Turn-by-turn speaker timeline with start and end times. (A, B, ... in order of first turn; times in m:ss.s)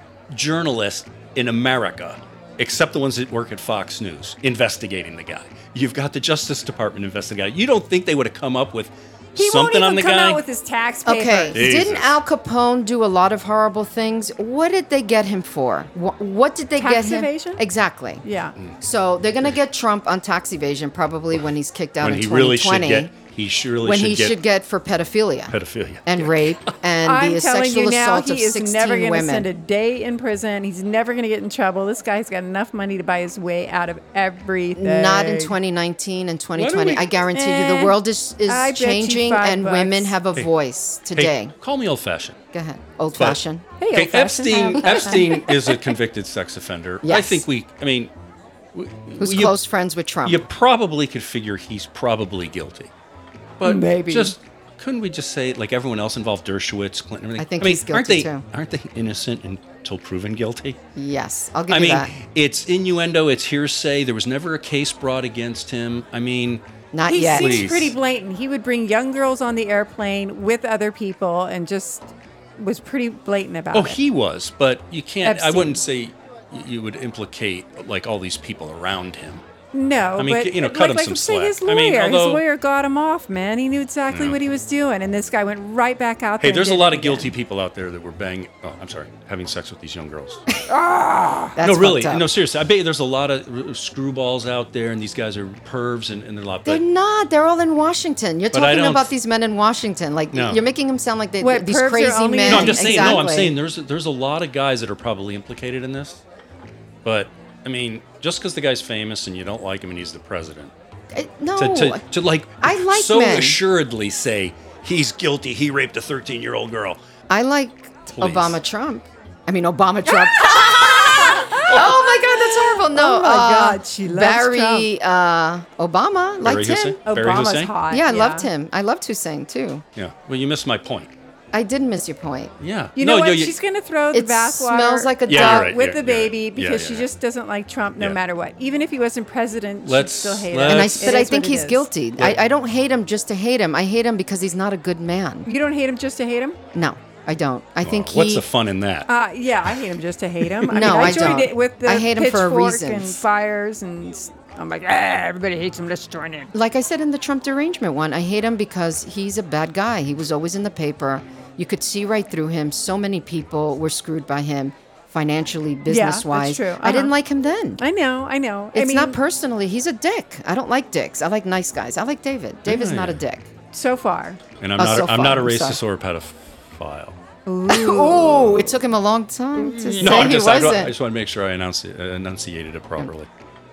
0:00.3-0:10.4 A
0:09.4-0:11.7 B
0:11.0-0:18.2 C
0:11.5-0:12.2 A
0:16.8-0:17.6 B
0:18.2-0:18.6 B
0:18.8-0:23.1 C
0:22.0-0:24.4 A
0:23.8-0:29.5 C
0:25.5-0:26.8 A
0:27.0-0:35.6 B
0:34.8-0:41.5 C
0:36.6-0:37.2 A
0:37.3-0:40.2 B
0:41.2-0:42.4 A
0:42.5-0:43.7 C
0:43.2-0:48.1 A
0:43.8-0:45.7 B
0:47.0-0:47.4 C
0:48.7-0:49.6 A
0:49.2-0:50.4 C
0:50.2-0:52.9 A
0:53.6-1:00.8 A
0:53.6-0:54.4 B
0:57.4-0:58.4 C
1:01.0-1:02.1 C
1:01.7-1:06.6 A
1:06.9-1:07.7 C
1:07.1-1:14.0 B
1:07.2-1:08.0 A
1:13.7-1:19.4 A
1:15.2-1:15.8 B
1:19.7-1:27.3 B
1:20.2-1:22.4 A
1:24.1-1:24.4 A
1:26.4-1:30.4 A
1:30.7-1:31.6 B
1:31.6-1:32.3 C
1:31.6-1:36.8 A
1:36.6-1:43.6 C
1:38.5-1:39.1 A
1:40.3-1:40.6 A
1:41.4-1:43.2 B
1:42.5-1:46.2 A
1:47.0-1:50.7 A
1:51.1-1:52.0 C
1:51.6-1:57.0 A
1:52.6-1:53.6 C
1:57.3-2:07.0 C
1:58.2-1:58.6 A
2:00.1-2:04.9 B
2:01.7-2:02.0 A
2:06.4-2:07.7 A
2:07.0-2:08.5 B
2:07.9-2:09.8 C
2:10.0-2:11.1 A
2:11.5-2:12.6 C
2:12.6-2:13.6 A
2:13.0-2:21.9 B
2:14.1-2:15.8 C
2:15.3-2:17.1 A
2:19.8-2:21.3 A
2:20.7-2:25.5 C
2:25.5-2:26.6 B
2:26.7-2:28.5 C
2:27.8-2:29.1 A
2:29.1-2:36.5 B
2:30.6-2:31.4 A
2:30.7-2:33.2 C
2:36.5-2:47.8 C
2:45.9-2:47.1 B
2:47.8-2:49.2 B
2:48.7-2:53.5 C
2:52.7-2:53.2 A
2:53.7-2:54.4 B
2:54.6-2:57.2 A
2:54.8-2:55.8 C
2:57.5-2:58.7 B
2:57.7-3:01.0 C
2:59.6-3:00.4 B
3:00.0-3:03.3 A